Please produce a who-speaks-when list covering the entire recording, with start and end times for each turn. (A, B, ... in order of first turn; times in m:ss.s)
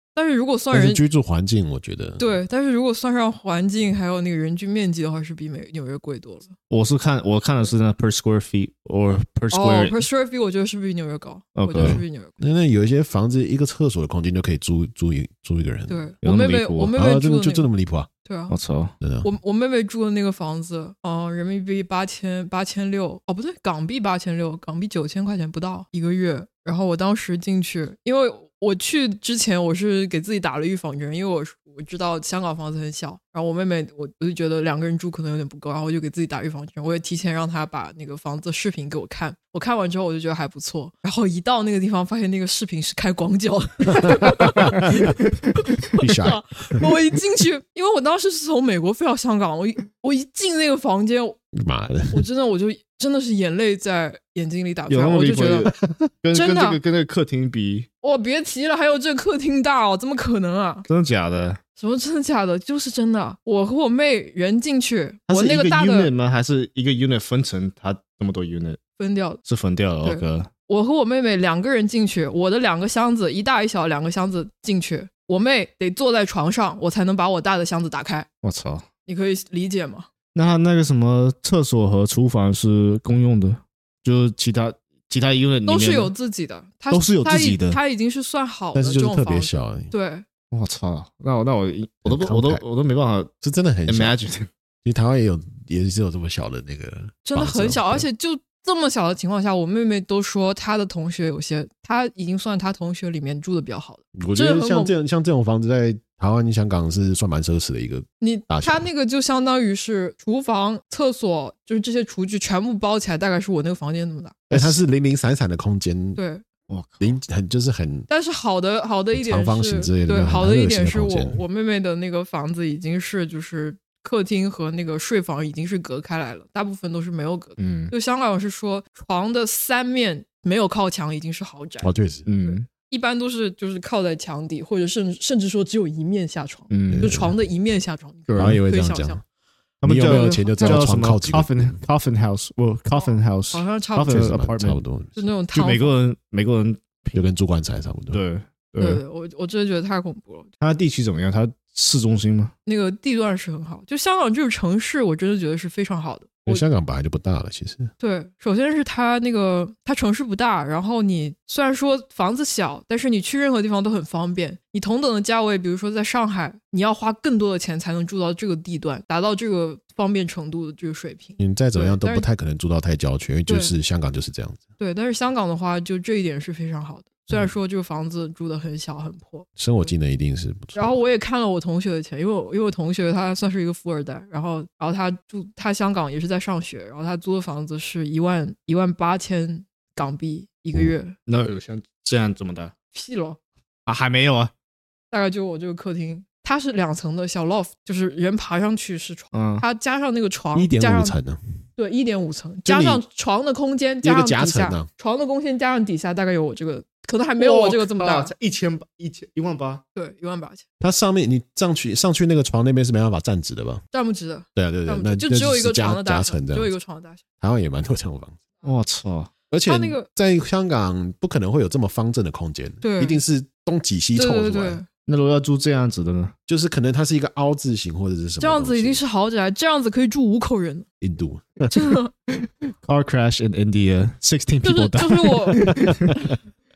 0:00.2-0:01.0 A
0:00.7-0:02.3 B
0:02.2-0:06.5 A
0:06.7-0:10.0 C
0:09.5-0:12.4 A
0:11.6-0:12.0 C
0:11.8-0:16.0 B
0:15.9-0:17.7 A
0:16.2-0:16.9 C
0:17.0-0:18.1 B
0:18.2-0:18.6 A
0:18.5-0:18.9 C
0:19.0-0:19.3 B
0:19.2-0:51.4 A
0:44.0-0:45.2 B
0:46.0-0:46.9 B
0:51.5-0:52.3 B
0:52.1-0:55.7 A
0:54.9-0:57.9 C
0:55.8-0:56.1 B
0:56.3-0:56.8 A
0:58.0-1:00.9 A
1:00.9-1:01.6 C
1:01.8-1:06.1 A
1:05.3-1:08.8 C
1:09.0-1:09.4 A
1:09.5-1:10.5 C
1:10.0-1:18.3 A
1:18.4-1:18.9 C
1:19.1-1:20.1 A
1:20.4-1:26.1 C
1:25.7-1:30.2 A
1:26.9-1:27.8 C
1:28.7-1:29.9 B
1:30.5-1:33.3 C
1:32.0-1:32.6 B
1:33.4-1:34.2 B
1:33.9-1:34.5 C
1:34.8-1:38.1 B
1:37.2-1:44.9 A
1:44.2-1:48.9 B
1:48.2-1:54.4 A
1:54.5-1:56.2 B
1:54.5-1:54.8 C
1:56.2-1:56.4 A
1:56.7-1:57.2 C
1:57.0-1:58.1 B
1:58.1-2:11.9 A
1:59.1-2:01.4 B
2:07.6-2:07.9 C
2:11.8-2:12.3 B
2:12.3-2:12.7 C
2:12.4-2:19.2 A
2:16.7-2:17.1 C
2:16.9-2:17.4 B
2:18.3-2:18.6 C
2:18.4-2:19.2 B
2:19.8-2:24.8 C
2:19.8-2:21.8 B
2:20.0-2:20.9 A
2:23.0-2:24.4 A
2:24.1-2:25.3 B
2:25.2-2:26.0 A
2:25.5-2:27.2 C
2:27.1-2:28.2 B
2:28.1-2:29.0 C
2:28.8-2:30.5 A
2:30.6-2:32.5 C
2:32.7-2:36.6 A
2:36.5-2:37.9 B
2:38.0-2:52.3 A
2:51.4-2:54.6 B
2:53.5-2:53.7 A
2:54.8-2:59.9 A
2:59.6-3:01.0 B
3:00.7-3:11.2 A
3:11.3-3:12.7 C
3:12.9-3:13.4 A
3:13.9-3:14.5 C
3:15.1-3:21.2 A
3:19.3-3:19.6 C
3:20.6-3:21.4 B
3:21.8-3:28.3 A
3:22.6-3:23.0 B
3:24.0-3:24.9 B
3:27.4-3:29.8 C
3:30.0-3:30.6 A
3:30.8-3:33.8 B
3:33.9-3:37.2 A
3:34.6-3:36.7 B
3:37.4-3:38.4 B
3:38.6-3:39.3 C
3:39.5-3:44.8 B
3:39.7-3:40.1 A
3:42.8-3:43.2 A
3:44.2-3:44.9 A
3:45.1-3:46.3 C
3:46.5-3:49.0 B
3:48.4-3:50.9 A
3:51.0-3:51.8 B
3:51.7-3:52.1 A
3:52.3-3:56.1 C
3:54.6-3:56.3 A
3:55.9-3:56.1 B